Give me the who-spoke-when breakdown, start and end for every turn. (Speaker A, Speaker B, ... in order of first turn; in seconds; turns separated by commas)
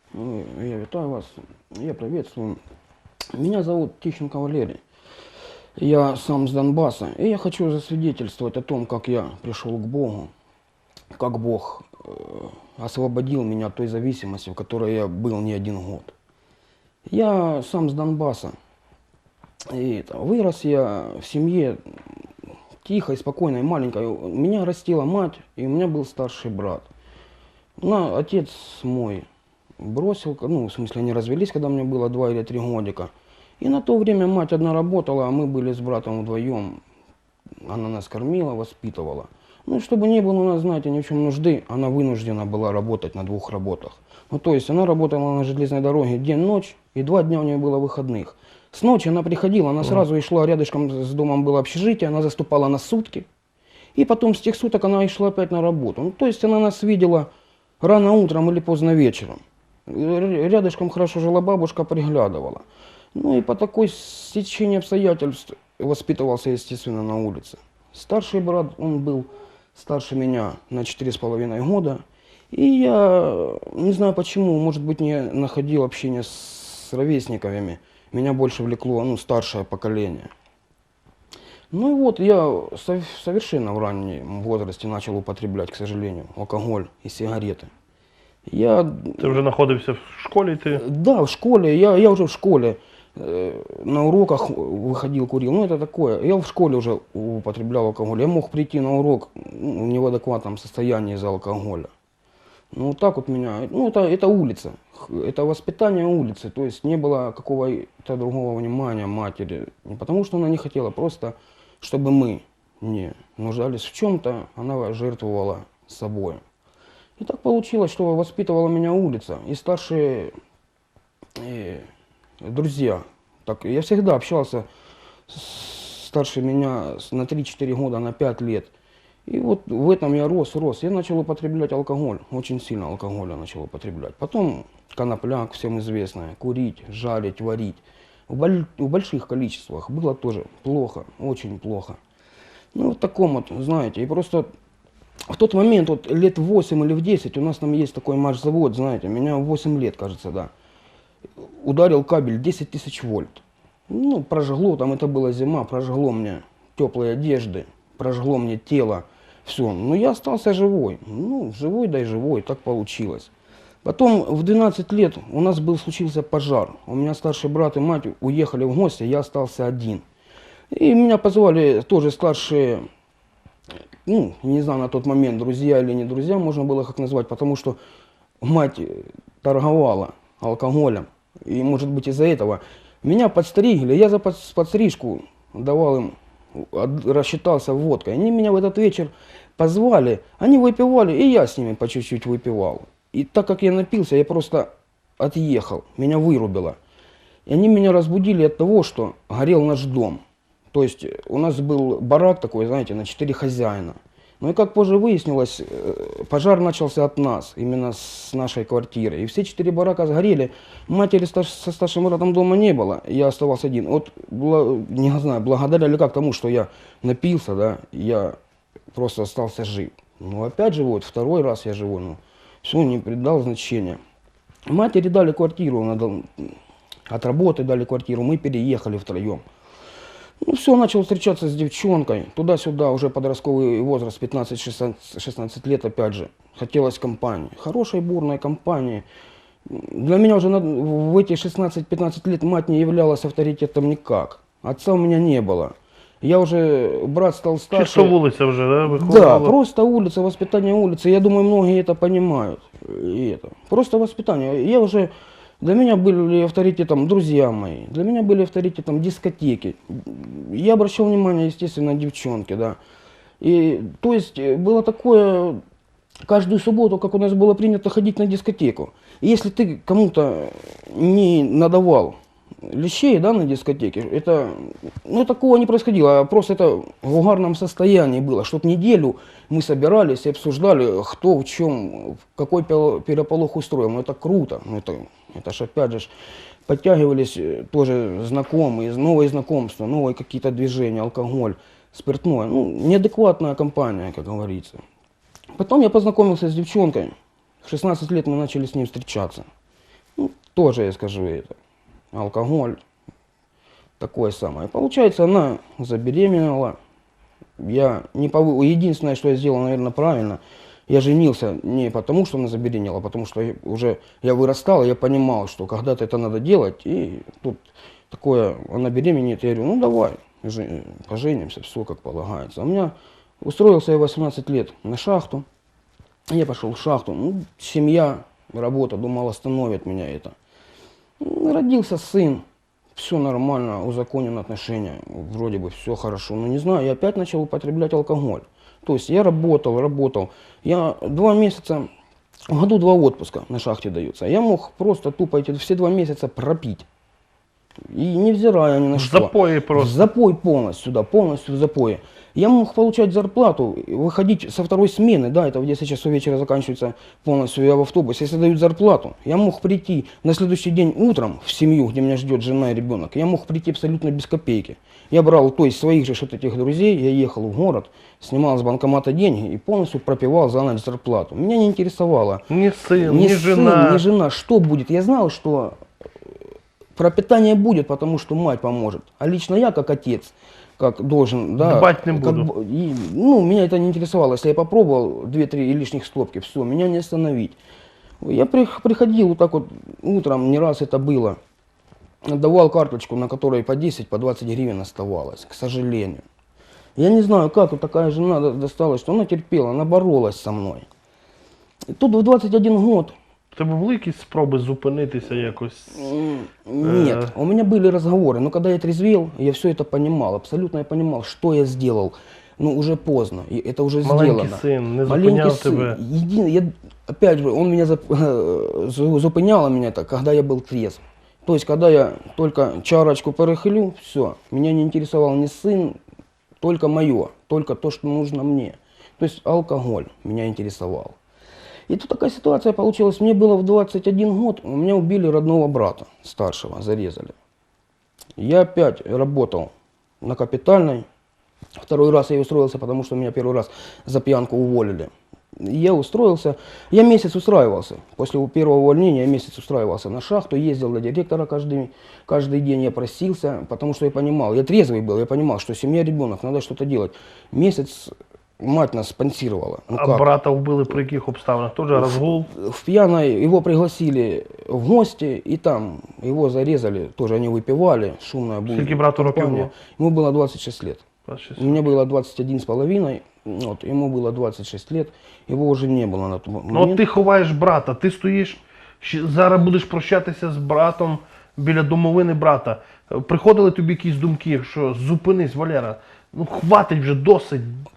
Speaker A: 0.1-2.6, Speaker A: 3.3-4.8, Speaker A: 5.8-10.3, Speaker A: 11.1-16.1, Speaker A: 17.1-18.5, Speaker A: 19.7-21.8, Speaker A: 22.8-26.9, Speaker A: 27.8-29.2, Speaker A: 29.8-36.8, Speaker A: 37.6-53.3, Speaker A: 53.9-57.3, Speaker A: 57.8-62.6, Speaker A: 63.1-80.3, Speaker A: 81.7-87.7, Speaker A: 88.5-89.4, Speaker B: 89.2-90.8, Speaker A: 90.7-101.9, Speaker A: 102.7-116.4, Speaker A: 117.2-120.3, Speaker A: 121.4-121.9, Speaker A: 122.4-124.7, Speaker A: 125.3-128.7, Speaker A: 129.3-142.0, Speaker A: 142.7-144.5, Speaker A: 145.3-150.5, Speaker A: 151.6-163.3, Speaker A: 163.8-170.0, Speaker A: 170.7-172.8, Speaker A: 174.0-177.8, Speaker A: 178.4-196.8, Speaker A: 197.5-218.4, Speaker A: 218.9-224.0, Speaker A: 224.7-226.6, Speaker A: 227.1-229.4, Speaker A: 230.4-239.0, Speaker A: 239.7-248.2, Speaker B: 247.7-249.6, Speaker A: 248.9-262.8, Speaker A: 263.4-265.6, Speaker A: 266.2-286.1, Speaker A: 286.7-294.8, Speaker A: 295.6-299.4, Speaker A: 300.2-301.6, Speaker A: 302.1-302.8, Speaker A: 304.0-306.8, Speaker A: 307.6-325.4, Speaker A: 326.3-330.3, Speaker A: 331.2-332.4, Speaker A: 332.9-341.9, Speaker A: 342.5-346.9, Speaker A: 347.9-372.4, Speaker B: 348.9-350.1, Speaker B: 372.5-374.0, Speaker A: 373.0-375.8, Speaker A: 376.9-387.6, Speaker B: 381.6-382.5, Speaker A: 388.2-391.4, Speaker A: 392.2-396.2, Speaker A: 397.0-400.9, Speaker A: 401.9-403.1, Speaker B: 403.5-406.1, Speaker A: 405.9-426.0, Speaker B: 406.8-407.3, Speaker B: 414.0-416.0, Speaker A: 426.6-431.2, Speaker A: 431.9-437.3, Speaker A: 438.4-441.1, Speaker A: 441.8-460.3, Speaker B: 459.9-462.5, Speaker A: 461.9-471.1, Speaker B: 468.7-469.7, Speaker B: 471.3-471.9, Speaker A: 471.6-477.0, Speaker B: 476.7-487.8